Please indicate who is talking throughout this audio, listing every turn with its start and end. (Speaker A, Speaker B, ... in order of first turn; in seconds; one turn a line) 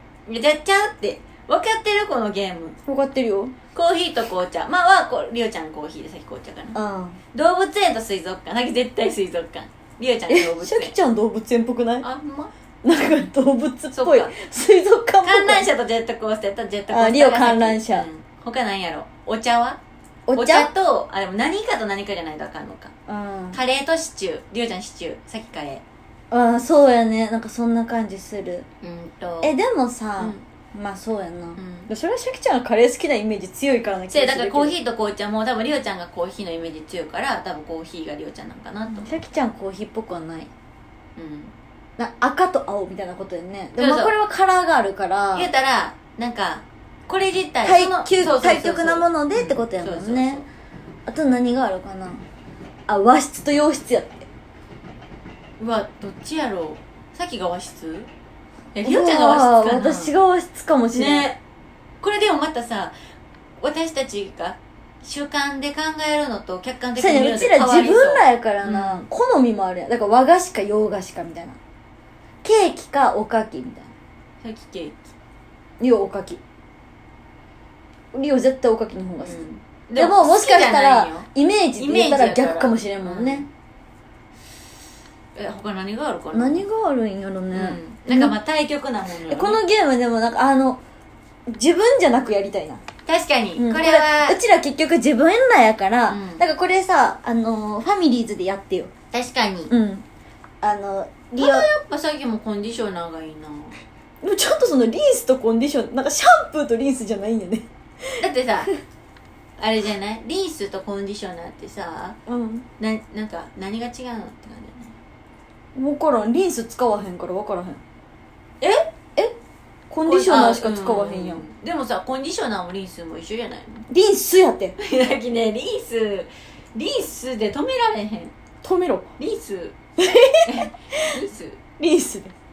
Speaker A: 0.2-2.8
Speaker B: 2.9-3.5
Speaker A: 3.7-6.8
Speaker B: 6.7-7.2
Speaker A: 7.3-10.9
Speaker B: 10.3-12.1
Speaker A: 12.0-12.5
Speaker B: 12.8-15.7
Speaker A: 13.9-14.3
Speaker A: 15.2-19.8
Speaker B: 16.9-18.1
Speaker B: 20.3-20.7
Speaker A: 20.3-22.9
Speaker B: 23.1-23.6
Speaker A: 23.5-25.8
Speaker B: 26.3-28.7
Speaker A: 28.8-29.5
Speaker B: 29.4-34.8
Speaker A: 30.2-30.4
Speaker A: 31.6-31.9
Speaker A: 34.1-39.1
Speaker B: 38.9-40.5
Speaker A: 41.1-41.5
Speaker B: 42.0-45.5
Speaker A: 43.8-44.1
Speaker A: 45.3-50.5
Speaker B: 47.6-50.4
Speaker B: 51.1-52.2
Speaker B: 52.9-54.3
Speaker A: 55.6-58.1
Speaker A: 58.7-60.1
Speaker B: 58.8-61.3
Speaker A: 60.9-61.4
Speaker A: 62.0-62.9
Speaker A: 63.6-69.1
Speaker B: 67.0-71.6
Speaker B: 72.4-73.9
Speaker A: 74.4-75.1
Speaker B: 75.8-76.4
Speaker B: 78.1-83.5
Speaker A: 79.2-83.5
Speaker A: 85.3-86.6
Speaker B: 86.3-88.3
Speaker A: 87.5-89.6
Speaker B: 89.2-90.8
Speaker B: 91.5-92.8
Speaker A: 93.0-94.4
Speaker B: 93.6-98.9
Speaker A: 96.1-96.4
Speaker A: 99.1-99.7
Speaker B: 99.7-100.0
Speaker B: 100.6-101.7
Speaker A: 101.4-103.8
Speaker B: 104.2-108.2
Speaker A: 108.2-108.7
Speaker A: 109.6-112.2
Speaker B: 112.3-112.7
Speaker A: 112.8-114.9
Speaker B: 115.7-117.8
Speaker A: 118.6-118.9
Speaker B: 119.9-121.4
Speaker A: 120.0-123.9
Speaker B: 123.9-124.8
Speaker A: 124.8-128.3
Speaker B: 128.6-129.1
Speaker A: 129.2-129.8
Speaker B: 130.0-131.1
Speaker A: 130.4-131.6
Speaker B: 131.8-132.3